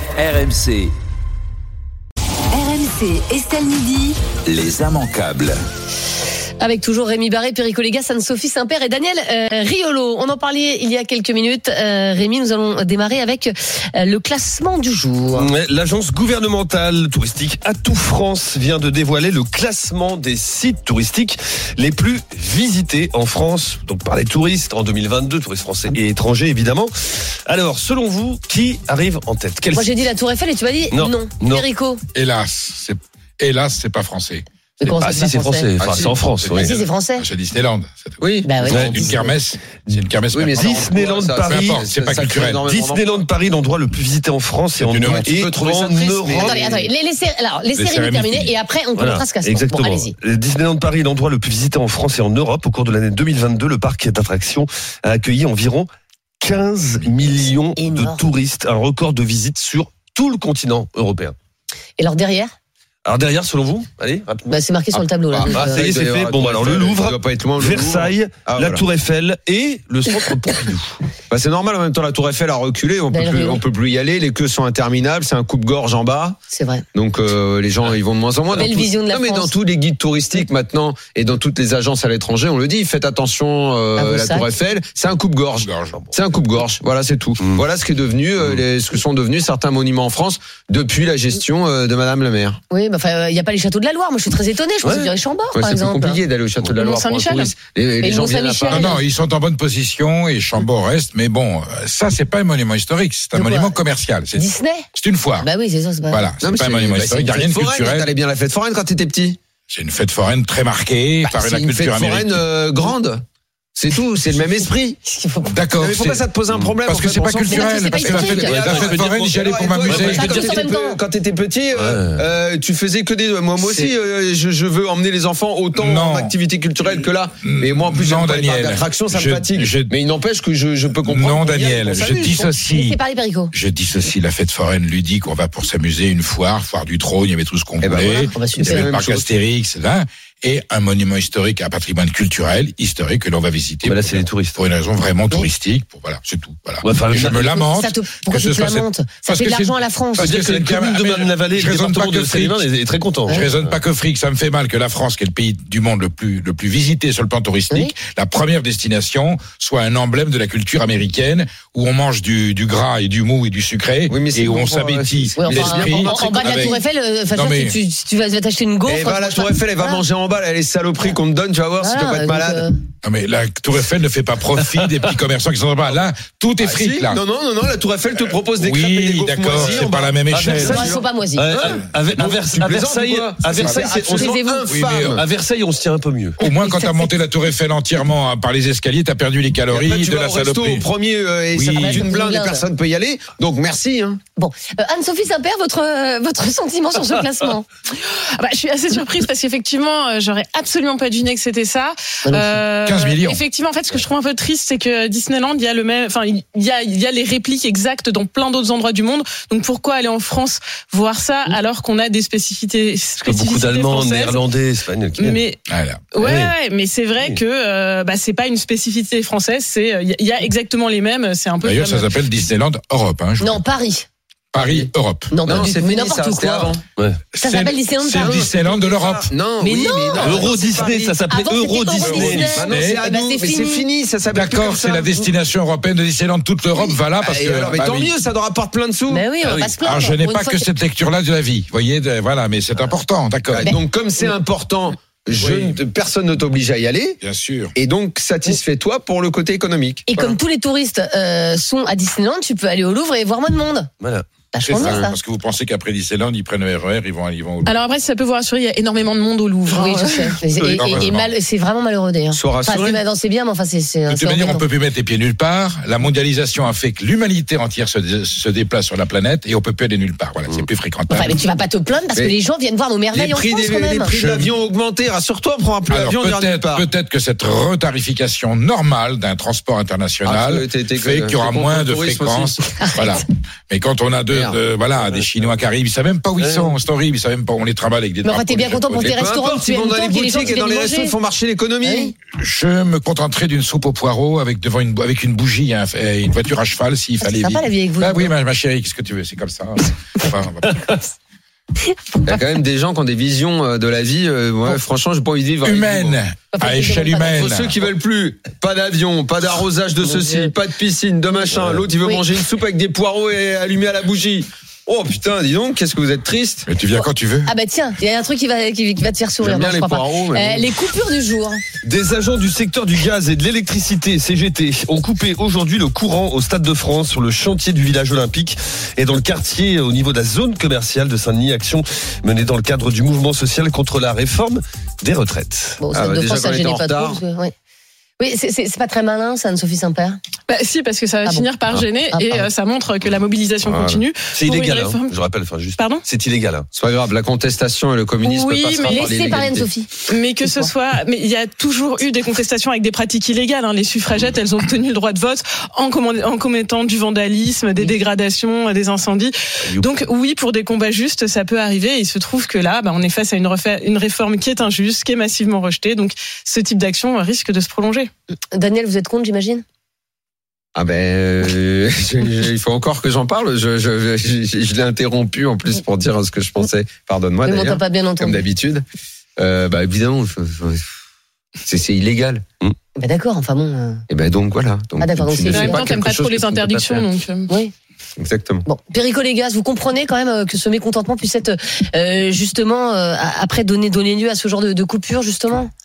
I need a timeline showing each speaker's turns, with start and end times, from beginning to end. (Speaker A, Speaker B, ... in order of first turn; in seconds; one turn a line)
Speaker A: 0.1-0.9
Speaker B: 2.5-4.2
Speaker A: 4.4-5.6
Speaker B: 6.6-15.5
Speaker C: 15.3-30.0
Speaker B: 29.7-32.0
Speaker C: 30.9-31.7
Speaker D: 32.1-34.4
Speaker B: 34.8-35.7
Speaker C: 34.9-36.7
Speaker E: 35.8-36.7
Speaker B: 36.6-37.2
Speaker D: 36.6-40.9
Speaker E: 38.2-39.3
Speaker B: 38.4-39.1
Speaker C: 38.6-39.1
Speaker E: 39.9-43.2
Speaker C: 40.6-41.8
Speaker D: 41.4-42.6
Speaker C: 42.6-46.7
Speaker D: 44.8-46.2
Speaker E: 45.2-46.9
Speaker B: 46.4-50.1
Speaker D: 47.7-48.5
Speaker C: 49.0-55.9
Speaker C: 56.4-61.3
Speaker B: 57.8-58.2
Speaker B: 62.0-62.5
Speaker C: 63.0-64.5
Speaker B: 64.5-65.8
Speaker E: 65.3-68.9
Speaker C: 65.5-71.0
Speaker E: 71.3-76.4
Speaker B: 73.1-73.6
Speaker B: 76.5-76.8
Speaker E: 76.9-92.6
Speaker B: 78.5-79.5
Speaker B: 84.0-84.5
Speaker D: 85.6-86.0
Speaker B: 92.7-96.2
Speaker C: 94.8-95.1
Speaker E: 95.5-99.0
Speaker F: 96.8-97.5
Speaker B: 98.0-99.0
Speaker D: 98.7-105.5
Speaker B: 103.3-103.8
Speaker B: 104.3-104.8
Speaker B: 105.4-106.3
Speaker D: 106.1-108.1
Speaker E: 106.4-109.4
Speaker D: 109.7-112.4
Speaker E: 111.2-113.2
Speaker E: 113.8-115.0
Speaker B: 115.0-115.5
Speaker D: 115.4-116.3
Speaker E: 115.8-132.5
Speaker D: 116.8-120.2
Speaker B: 117.5-118.7
Speaker C: 118.3-120.5
Speaker B: 120.1-121.0
Speaker C: 121.7-122.2
Speaker D: 125.7-126.3
Speaker D: 127.4-129.9
Speaker D: 131.0-133.0
Speaker B: 132.7-133.5
Speaker D: 133.5-152.6
Speaker E: 137.8-139.3
Speaker B: 138.2-138.9
Speaker C: 143.8-144.6
Speaker C: 146.8-147.4
Speaker B: 147.2-150.3
Speaker C: 150.2-153.7
Speaker D: 153.3-167.8
Speaker E: 164.1-166.8
Speaker B: 165.4-170.0
Speaker E: 168.8-172.6
Speaker B: 171.8-172.8
Speaker D: 173.0-177.2
Speaker E: 176.6-185.2
Speaker D: 178.5-180.9
Speaker C: 180.3-180.7
Speaker B: 180.6-181.6
Speaker C: 181.4-184.3
Speaker B: 183.9-184.6
Speaker D: 184.7-185.2
Speaker C: 185.1-186.4
Speaker D: 186.4-190.9
Speaker B: 186.4-187.1
Speaker E: 189.7-194.2
Speaker D: 191.5-192.1
Speaker B: 191.7-192.6
Speaker B: 194.3-197.7
Speaker F: 198.0-214.4
Speaker B: 202.2-202.6
Speaker D: 202.8-203.4
Speaker C: 213.2-215.4
Speaker F: 215.2-215.6
Speaker D: 215.7-216.1
Speaker F: 216.1-222.1
Speaker C: 216.2-216.5
Speaker D: 221.6-223.6
Speaker B: 223.4-224.1
Speaker D: 224.5-225.7
Speaker E: 224.6-224.9
Speaker B: 225.3-226.7
Speaker E: 225.5-226.8
Speaker C: 227.0-227.2
Speaker D: 227.3-229.3
Speaker B: 227.4-228.5
Speaker E: 228.1-231.2
Speaker B: 229.6-230.5
Speaker C: 230.2-232.6
Speaker B: 231.3-233.8
Speaker E: 231.9-235.2
Speaker D: 232.5-233.0
Speaker D: 234.3-238.1
Speaker E: 236.8-239.2
Speaker B: 239.1-240.7
Speaker C: 239.4-239.7
Speaker D: 239.8-243.7
Speaker E: 243.5-247.2
Speaker D: 245.3-245.8
Speaker D: 247.2-247.7
Speaker E: 247.7-250.1
Speaker B: 250.1-253.9
Speaker C: 254.0-254.3
Speaker B: 254.5-255.2
Speaker D: 254.6-257.7
Speaker E: 254.8-255.1
Speaker F: 257.6-260.4
Speaker B: 259.7-264.6
Speaker E: 260.6-260.9
Speaker D: 260.8-261.3
Speaker E: 262.3-263.0
Speaker D: 264.1-271.4
Speaker B: 271.1-274.2
Speaker E: 273.1-276.9
Speaker D: 274.2-274.5
Speaker D: 275.9-289.1
Speaker E: 280.2-282.6
Speaker B: 282.8-283.2
Speaker E: 284.3-284.6
Speaker C: 286.4-286.7
Speaker B: 288.2-291.2
Speaker E: 289.0-292.1
Speaker B: 291.8-292.1
Speaker D: 292.4-301.0
Speaker B: 297.2-298.3
Speaker E: 302.2-306.2
Speaker D: 305.6-307.8
Speaker B: 306.5-307.5
Speaker E: 307.3-316.7
Speaker B: 310.0-310.5
Speaker D: 316.6-317.5
Speaker B: 316.9-321.6
Speaker E: 319.4-320.7
Speaker C: 321.8-335.8
Speaker B: 335.8-337.5
Speaker E: 335.9-337.2
Speaker B: 338.2-340.2
Speaker F: 340.5-345.1
Speaker B: 342.1-342.5
Speaker E: 343.6-344.0
Speaker C: 344.3-346.7
Speaker F: 345.8-346.0
Speaker E: 346.7-349.7
Speaker F: 348.2-349.1
Speaker B: 348.8-349.9
Speaker F: 350.1-368.1
Speaker B: 350.4-350.7
Speaker B: 368.5-369.6
Speaker E: 370.7-378.8
Speaker B: 377.4-378.4
Speaker E: 379.4-380.9
Speaker E: 381.6-382.4
Speaker B: 382.9-384.0
Speaker E: 384.1-386.6
Speaker B: 385.0-385.9
Speaker F: 385.5-387.5
Speaker C: 386.5-387.0
Speaker E: 388.1-388.6
Speaker B: 388.6-395.7